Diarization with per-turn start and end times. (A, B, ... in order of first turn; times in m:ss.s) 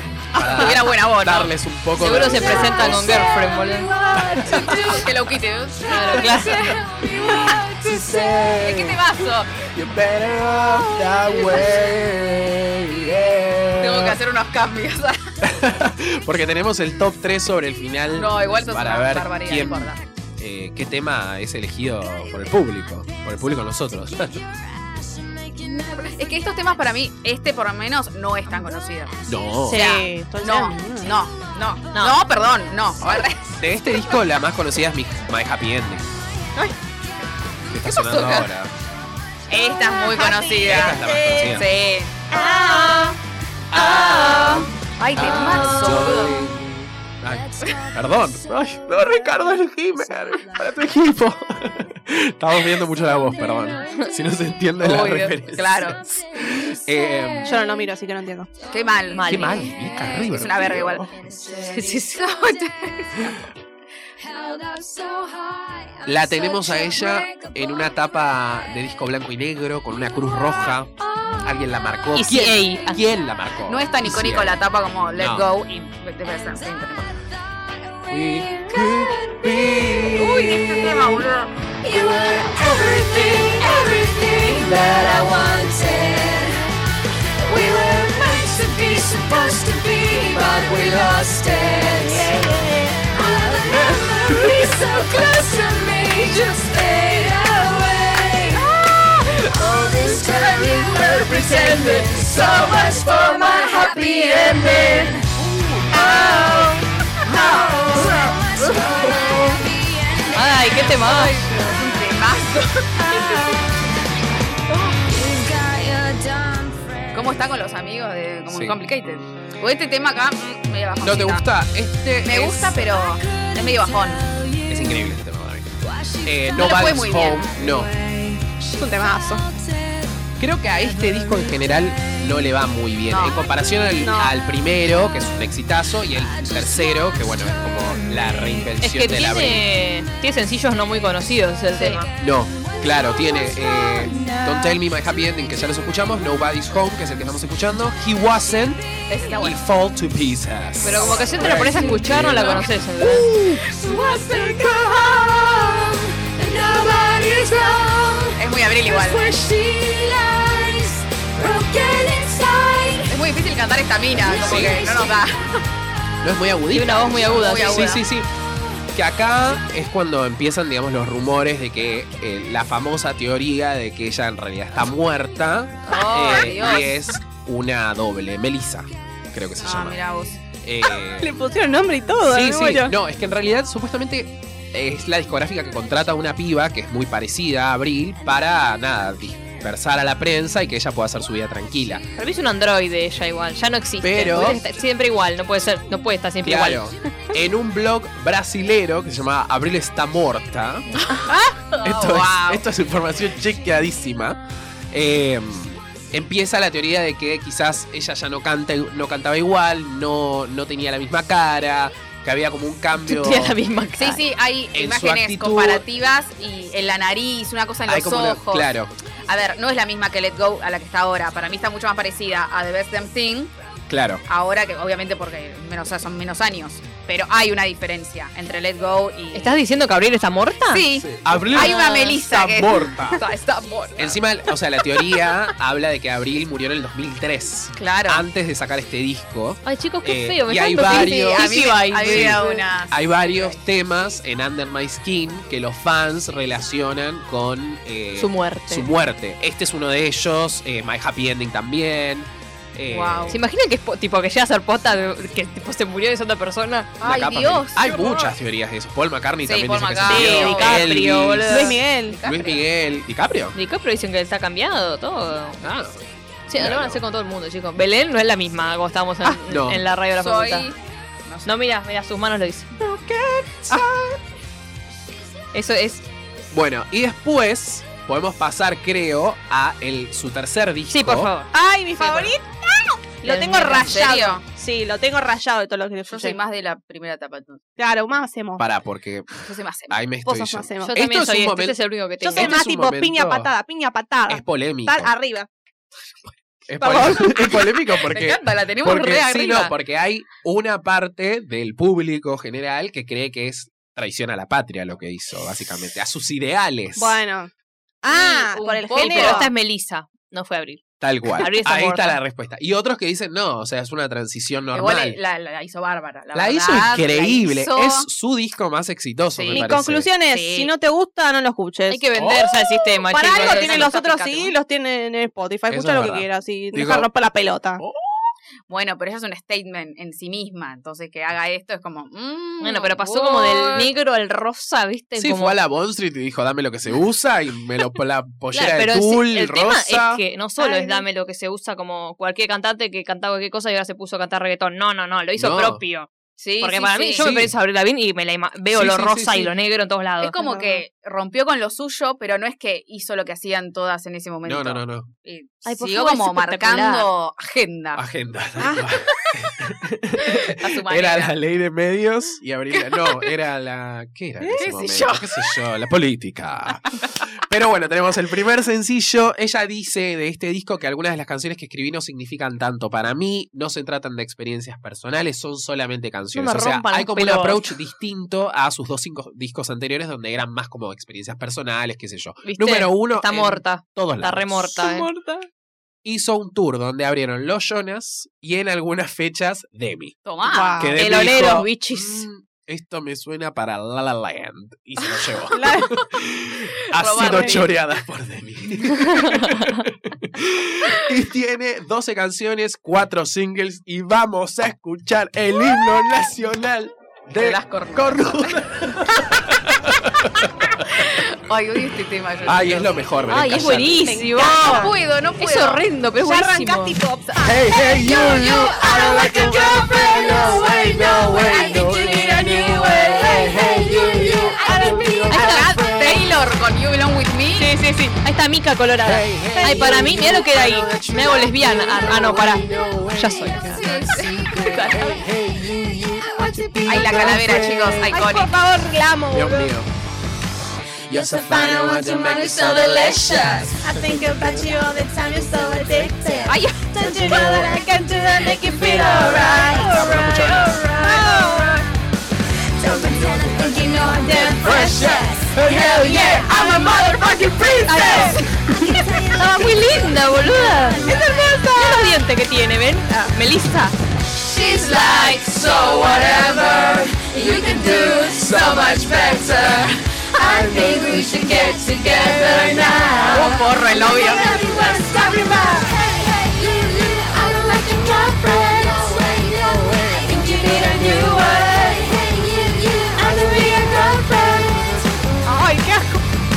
0:00.3-0:03.4 A
0:00.4-0:01.5 B
0:02.0-0:03.9 C
0:02.2-0:05.3 D
0:04.1-0:05.1 A
0:04.6-0:07.6 B
0:05.9-0:08.6 D
0:05.9-0:06.8 C
0:07.2-0:14.2 A
0:08.5-0:09.5 B
0:10.6-0:11.8 D
0:13.8-0:15.2 B
0:15.4-0:24.4 A
0:18.1-0:20.0 B
0:24.8-0:26.2 D
0:25.8-0:29.1 B
0:29.2-0:29.8 A
0:29.7-0:31.2 E
0:29.7-0:33.6 B
0:31.9-0:32.2 C
0:33.0-0:36.1 A
0:37.7-0:38.7 A
0:37.8-0:38.5 B
0:39.5-0:42.2 B
0:40.1-0:41.6 E
0:40.6-0:41.7 A
0:42.3-0:43.2 E
0:42.7-0:43.1 D
0:43.7-0:57.6 A
0:43.8-0:46.4 B
0:44.1-0:44.7 D
0:45.2-0:46.1 C
0:45.4-0:46.3 D
0:47.4-0:50.9 D
0:53.0-0:54.2 D
0:54.8-0:56.0 B
0:56.0-0:57.7 D
0:57.4-0:58.5 E
0:58.7-0:59.4 B
0:59.1-0:59.8 C
0:59.2-1:01.2 A
0:59.4-1:03.4 D
1:00.2-1:01.1 B
1:01.7-1:03.3 B
1:01.7-1:02.1 C
1:04.2-1:08.1 D
1:06.1-1:14.6 A
1:11.0-1:11.6 D
1:12.2-1:13.0 C
1:13.7-1:17.1 B
1:15.2-1:15.5 A
1:18.0-1:21.2 D
1:18.1-1:21.3 A
1:20.1-1:21.5 B
1:21.8-1:26.7 D
1:21.9-1:23.9 A
1:27.4-1:45.3 D
1:32.1-1:33.1 E
1:33.7-1:34.8 A
1:39.2-1:45.2 A
1:45.9-1:46.7 B
1:45.9-1:51.8 D
1:46.0-1:46.7 E
1:47.2-1:48.0 B
1:47.9-1:49.6 A
1:50.3-1:51.4 C
1:51.0-1:53.6 B
1:53.0-1:54.0 D
1:54.7-1:57.2 D
1:57.1-2:01.4 B
1:58.5-1:58.8 A
2:01.0-2:03.0 A
2:02.2-2:04.3 B
2:03.0-2:05.0 D
2:04.7-2:05.7 A
2:05.8-2:10.1 D
2:06.2-2:07.9 A
2:06.5-2:07.5 B
2:08.8-2:09.4 E
2:10.4-2:19.6 A
2:11.1-2:11.5 D
2:13.1-2:13.4 B
2:14.0-2:14.4 E
2:16.2-2:18.3 D
2:18.8-2:22.1 C
2:21.7-2:22.0 B
2:22.2-2:28.8 A
2:22.6-2:24.8 D
2:29.1-2:29.6 B
2:29.3-2:33.6 A
2:30.8-2:33.3 C
2:30.8-2:32.7 B
2:33.6-2:43.2 D
2:38.4-2:39.4 B
2:43.1-2:45.6 B
2:44.2-2:45.3 D
2:44.2-2:44.8 A
2:46.2-2:48.3 A
2:46.7-2:48.0 C
2:47.2-2:48.1 B
2:48.9-3:00.0 A
2:55.8-2:56.9 B
2:59.6-3:00.4 B
3:00.6-3:01.4 A
3:00.9-3:03.0 E
3:02.2-3:12.0 A
3:12.2-3:16.8 C
3:14.0-3:14.6 A
3:16.4-3:20.9 A
3:20.9-3:21.2 C
3:21.0-3:22.6 B
3:21.8-3:24.4 A
3:24.9-3:33.6 A
3:33.0-3:34.2 C
3:34.0-3:38.7 B
3:34.7-3:35.9 A
3:37.9-3:38.9 A
3:39.3-3:43.5 B
3:43.9-3:44.2 A
3:44.3-3:49.6 B
3:49.3-3:50.9 C
3:50.7-3:54.2 B
3:51.0-3:53.2 A
3:51.5-3:52.2 C
3:54.0-4:13.4 A
3:57.8-3:58.2 B
3:59.6-4:02.6 C
4:00.9-4:03.6 B
4:08.2-4:08.9 C
4:12.9-4:13.4 B
4:13.3-4:17.0 C
4:17.0-4:18.3 B
4:17.0-4:21.7 A
4:19.4-4:21.0 B
4:20.1-4:21.8 C
4:20.1-4:20.9 E
4:21.5-4:22.2 E
4:21.9-4:22.6 B
4:22.2-4:23.6 A
4:23.6-4:25.6 C
4:25.6-4:26.0 A
4:26.5-4:30.7 C
4:26.6-4:27.0 A
4:29.4-4:29.8 A
4:30.2-4:31.5 B
4:31.4-4:32.8 C
4:32.8-4:34.2 E
4:35.5-4:36.0 C
4:36.5-4:41.3 A
4:40.9-4:41.5 C
4:41.5-4:46.4 E
4:42.0-4:42.3 B
4:43.2-4:44.1 C
4:43.8-4:44.4 B
4:46.1-4:47.6 B
4:47.8-4:48.6 E
4:48.6-4:51.8 A
4:49.4-4:50.0 B
4:50.2-4:50.9 E
4:50.8-4:52.6 C
4:52.2-4:55.5 E
4:52.3-4:53.5 A
4:54.3-4:55.1 A
4:56.7-5:07.2 A
4:56.8-4:57.7 E
4:57.0-4:59.8 B
5:07.0-5:07.5 E
5:08.0-5:09.5 E
5:08.1-5:09.5 B
5:08.9-5:10.8 C
5:11.0-5:15.2 A
5:11.4-5:12.2 C
5:14.7-5:18.1 B
5:16.3-5:20.1 A
5:19.3-5:19.7 B
5:19.5-5:22.0 E
5:20.3-5:20.7 B
5:21.9-5:24.5 C
5:22.2-5:22.5 A
5:23.1-5:27.8 E
5:23.2-5:24.2 B
5:25.7-5:27.1 A
5:27.8-5:28.3 A
5:28.7-5:33.9 B
5:32.6-5:35.6 C
5:35.2-5:40.2 A
5:38.5-5:46.1 C
5:40.6-5:41.0 E
5:45.4-5:45.8 A
5:46.4-5:47.4 B
5:46.6-5:50.4 C
5:47.2-5:47.6 A
5:48.7-5:49.5 A
5:50.2-5:58.0 B
5:50.3-5:50.8 E
5:54.4-5:55.1 A
5:55.6-5:57.1 C
5:58.0-6:24.8 A
5:58.6-5:58.9 E
6:00.2-6:01.4 B
6:02.7-6:03.3 B
6:04.5-6:05.6 B
6:16.3-6:17.8 C
6:22.4-6:22.9 B
6:22.6-6:25.1 C
6:24.8-6:25.5 E
6:26.0-6:30.2 A
6:30.2-6:30.8 B
6:30.5-6:31.0 E
6:30.8-6:51.2 A
6:31.0-6:32.2 C
6:35.5-6:36.0 E
6:37.0-6:37.8 B
6:37.2-6:37.6 E
6:47.4-6:48.6 B
6:51.0-6:53.0 B
6:52.4-6:54.2 A
6:53.3-6:57.0 C
6:54.0-6:54.9 E
6:54.4-6:55.8 B
6:56.2-6:57.6 E
6:57.4-7:06.3 A
6:57.8-7:05.7 D
6:59.1-7:05.8 E
7:05.3-7:05.7 C
7:05.3-7:07.7 B
7:07.6-7:14.1 C
7:09.0-7:18.3 A
7:09.6-7:10.1 E
7:13.6-7:14.9 B
7:14.8-7:15.3 D
7:16.2-7:17.4 D
7:16.9-7:18.6 B
7:18.1-7:19.7 E
7:19.3-7:19.9 A
7:21.1-7:24.0 A
7:21.1-7:31.8 D
7:23.8-7:31.9 E
7:26.5-7:27.0 B
7:28.9-7:31.0 A
7:32.8-7:41.8 D
7:32.9-7:39.1 A
7:33.9-7:37.0 E
7:37.7-7:38.4 E
7:39.3-7:41.2 C
7:40.9-7:42.2 E
7:41.7-7:44.0 C
7:44.4-8:05.0 D
7:46.2-7:47.1 A
7:47.8-7:49.9 A
7:50.5-7:51.4 A
7:52.3-7:53.5 E
7:53.3-7:54.7 B
7:55.0-7:55.9 E
8:05.4-8:06.2 E